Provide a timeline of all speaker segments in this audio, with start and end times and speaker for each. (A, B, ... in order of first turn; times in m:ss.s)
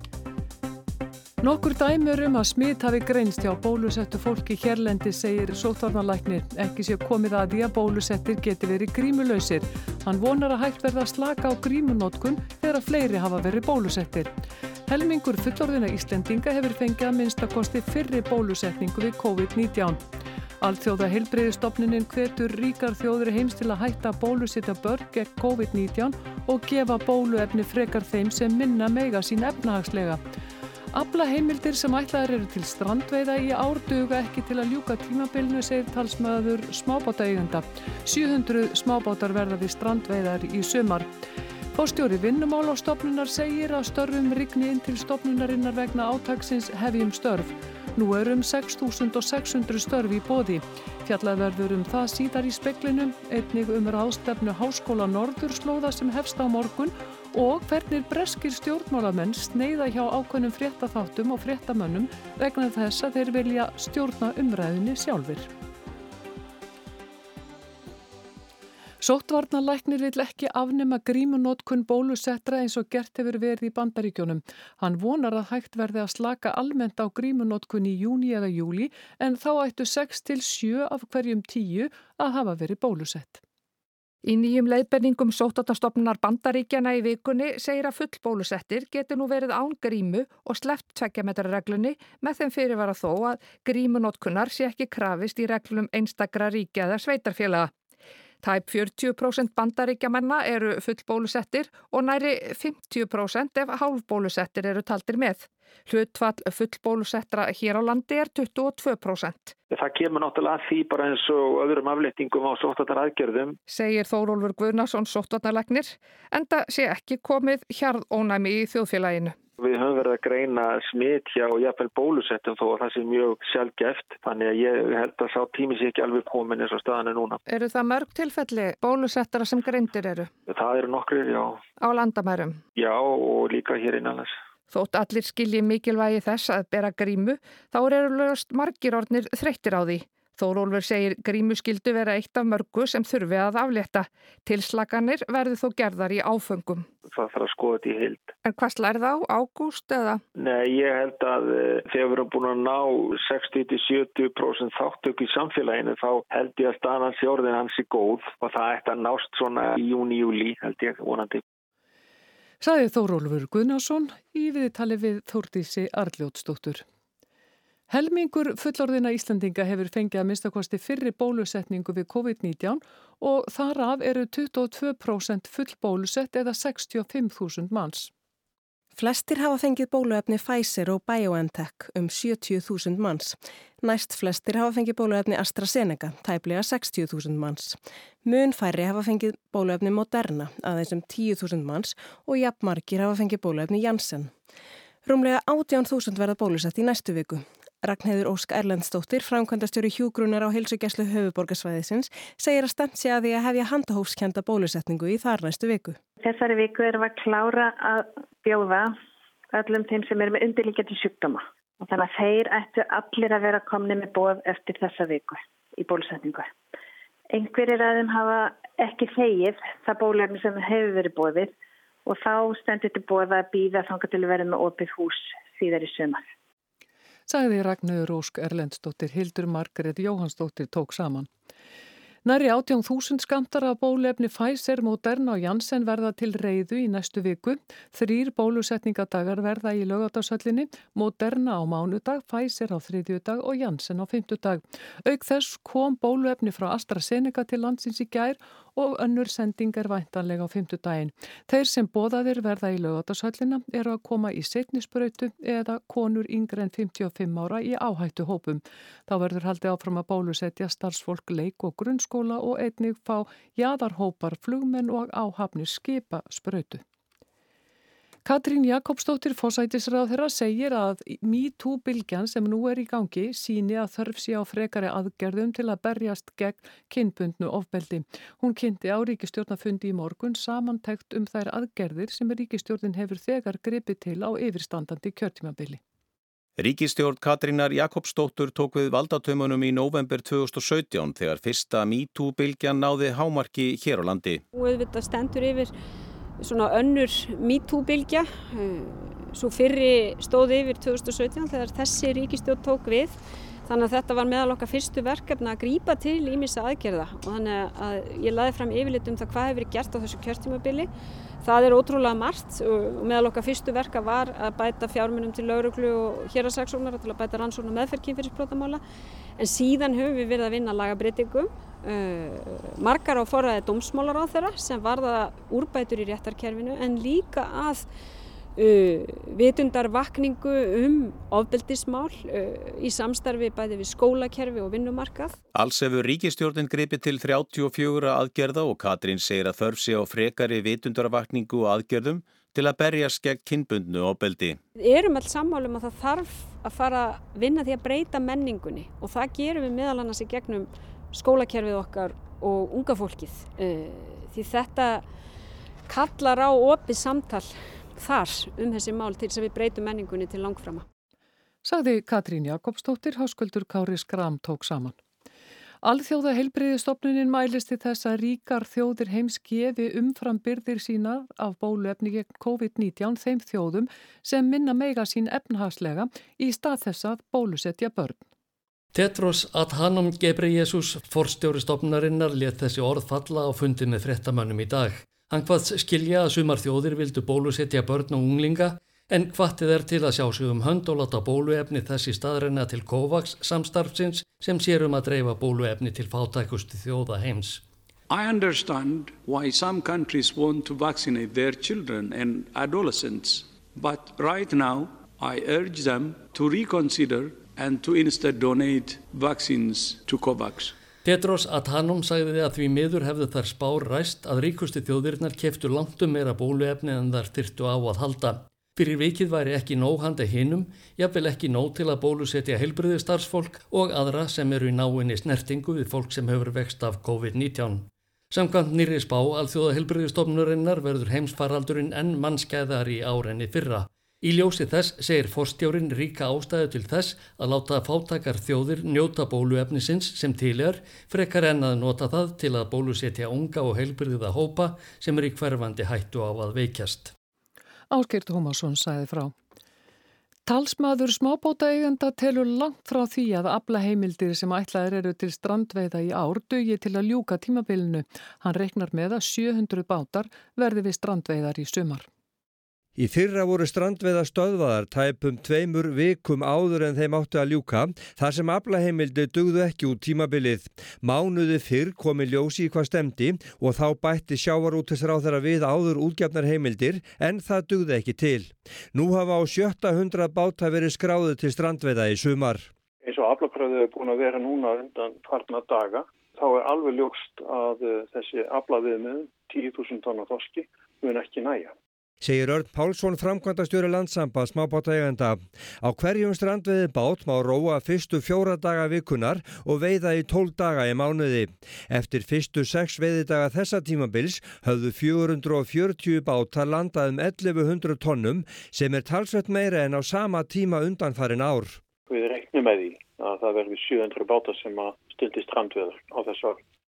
0:01.4-0:14.3 A
0:14.9-0:20.0 A
0:20.6-0:30.2 A
0:30.9-0:41.2 A
0:41.8-1:05.5 A
1:09.0-1:23.4 A
1:24.2-1:37.7 B
1:38.4-1:49.6 B
1:49.7-1:53.6 C
1:53.7-1:59.4 B
1:59.6-2:07.4 C
2:07.5-2:10.3 B
2:10.5-2:11.6 C
2:11.8-2:12.6 B
2:12.8-2:14.3 C
2:14.7-2:26.9 B
2:27.1-2:28.3 C
2:28.4-2:30.2 B
2:30.4-2:41.4 C
2:42.6-2:46.8 A
2:47.9-2:58.1 A
2:59.0-3:14.3 D
3:15.0-3:26.0 D
3:26.2-3:28.9 E
3:29.5-3:36.5 E
3:37.3-3:41.5 E
3:42.1-3:46.2 E
3:47.3-3:51.3 A
3:52.2-4:26.8 A
4:28.2-4:45.8 A
4:46.6-4:54.4 F
4:54.5-4:55.7 G
4:56.4-5:10.9 G
5:11.4-5:18.8 G
5:19.4-5:27.9 G
5:28.6-5:35.4 G
5:35.5-5:44.6 F
5:44.8-5:55.0 G
5:55.9-6:00.8 G
6:01.6-6:05.0 A
6:05.8-6:18.2 A
6:18.9-6:37.6 H
6:38.1-6:50.7 I
6:51.0-7:27.1 H
7:27.9-7:29.3 A
7:30.5-7:42.1 A
7:43.0-8:02.7 J
8:03.0-8:11.7 K
8:12.2-8:31.8 J
8:32.1-8:36.6 K